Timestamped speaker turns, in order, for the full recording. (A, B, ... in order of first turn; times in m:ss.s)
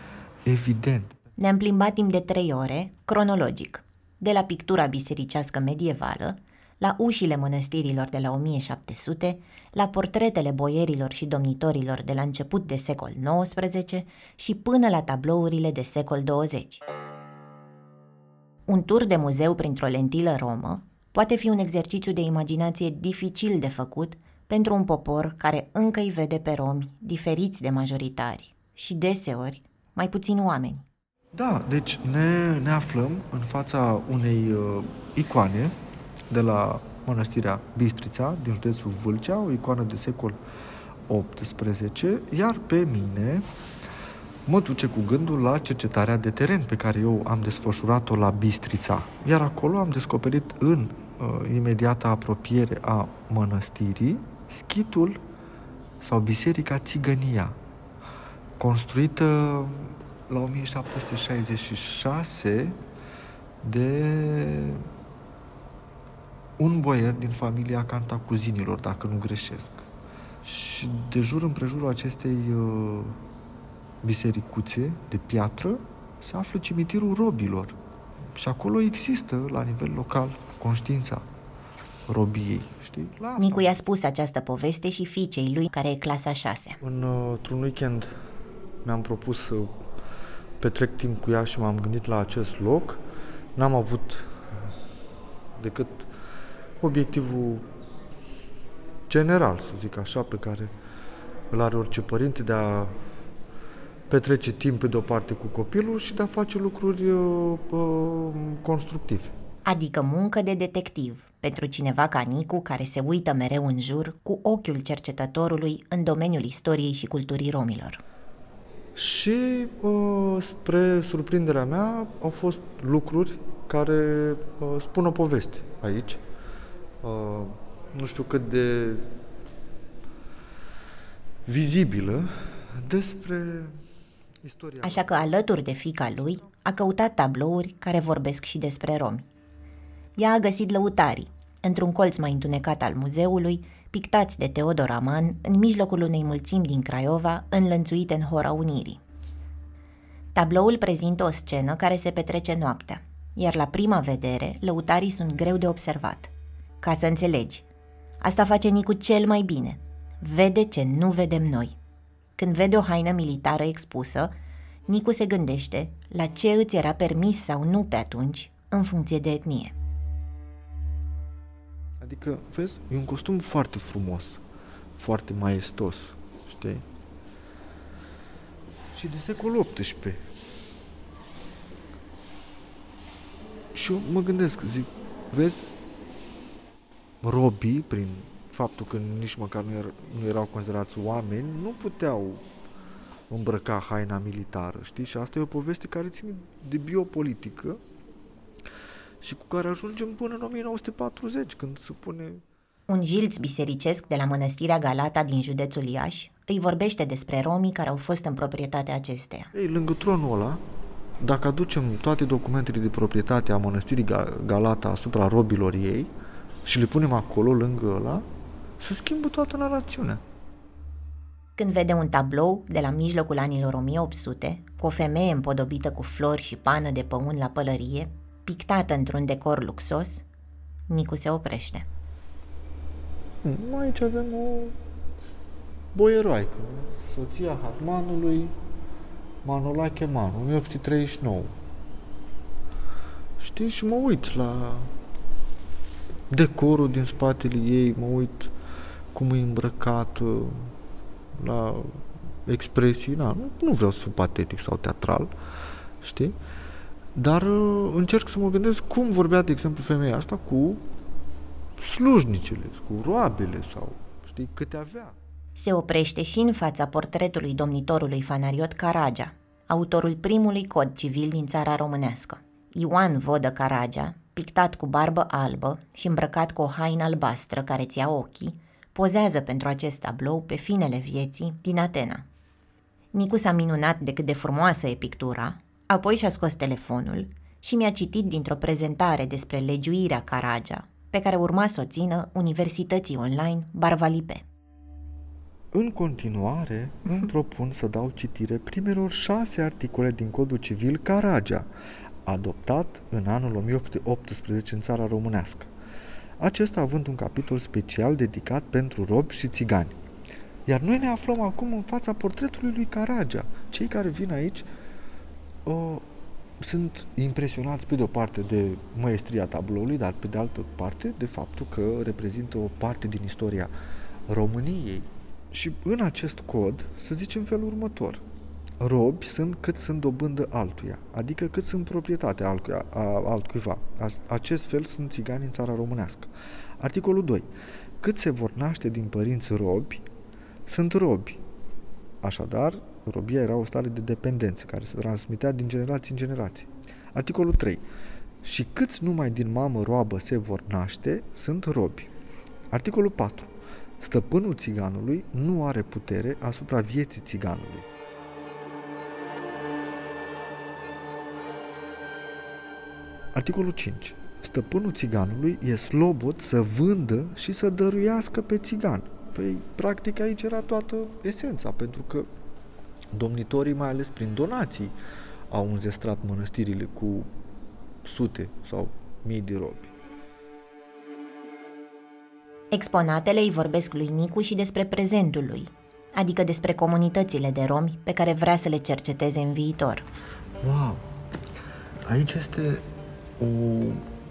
0:00.4-0:01.2 A
0:01.4-0:16.8 B
0:18.7-0:30.9 B
0:31.3-0:35.8 A
0:36.3-0:40.4 A
0:41.1-0:43.5 A
0:44.5-0:55.2 A
0:56.0-0:57.6 A
0:58.6-1:02.8 A
1:03.6-1:04.9 A
1:06.6-1:09.9 A
1:10.4-1:13.2 A
1:14.0-1:17.8 A
1:18.3-1:21.3 A
1:22.1-1:23.8 A
1:23.4-1:26.8 B
1:26.8-1:28.2 A
1:28.8-1:29.9 A
1:30.6-1:33.0 A
1:33.6-1:34.7 A
1:35.6-1:36.1 A
1:36.8-1:37.7 A
1:39.1-1:40.7 A
1:41.5-1:43.0 A
1:44.1-1:49.4 A
1:49.6-1:58.0 B
1:59.0-2:06.2 A
2:07.0-2:09.1 A
2:11.5-2:13.8 A
2:14.4-2:15.4 A
2:14.8-2:19.2 B
2:16.2-2:16.5 A
2:20.2-2:29.0 B
2:30.3-2:37.7 B
2:38.2-2:41.8 B
2:42.4-2:44.3 B
2:44.9-2:49.8 B
2:52.0-2:54.4 A
2:55.0-2:56.9 A
2:58.9-3:00.3 A
3:03.7-3:05.8 A
3:07.2-3:12.5 A
3:13.3-3:17.8 A
3:19.2-3:22.4 A
3:22.9-3:29.5 B
3:29.5-3:30.6 A
3:31.2-3:36.1 A
3:36.6-3:38.3 A
3:38.8-3:40.2 A
3:41.6-3:50.2 B
3:50.9-3:51.9 B
3:53.4-3:54.8 A
3:55.9-3:58.6 A
3:59.4-4:01.6 A
4:03.4-4:04.9 A
4:06.3-4:08.5 A
4:09.1-4:10.7 A
4:11.3-4:15.3 A
4:16.0-4:16.4 A
4:17.2-4:20.9 A
4:21.8-4:25.2 A
4:25.6-4:42.2 B
4:43.1-4:54.5 B
4:55.7-5:01.7 A
5:02.3-5:05.7 A
5:06.4-5:10.0 A
5:10.7-5:14.7 A
5:15.6-5:16.1 A
5:16.6-5:23.7 A
5:24.3-5:28.2 A
5:28.8-5:40.0 A
5:40.7-5:41.4 A
5:42.2-5:47.8 A
5:48.4-5:52.1 A
5:52.7-5:57.9 A
6:03.3-6:12.3 A
6:13.1-6:14.9 A
6:15.5-6:17.3 A
6:18.0-6:19.9 A
6:22.7-6:30.1 B
6:30.6-6:31.1 A
6:32.0-6:34.1 A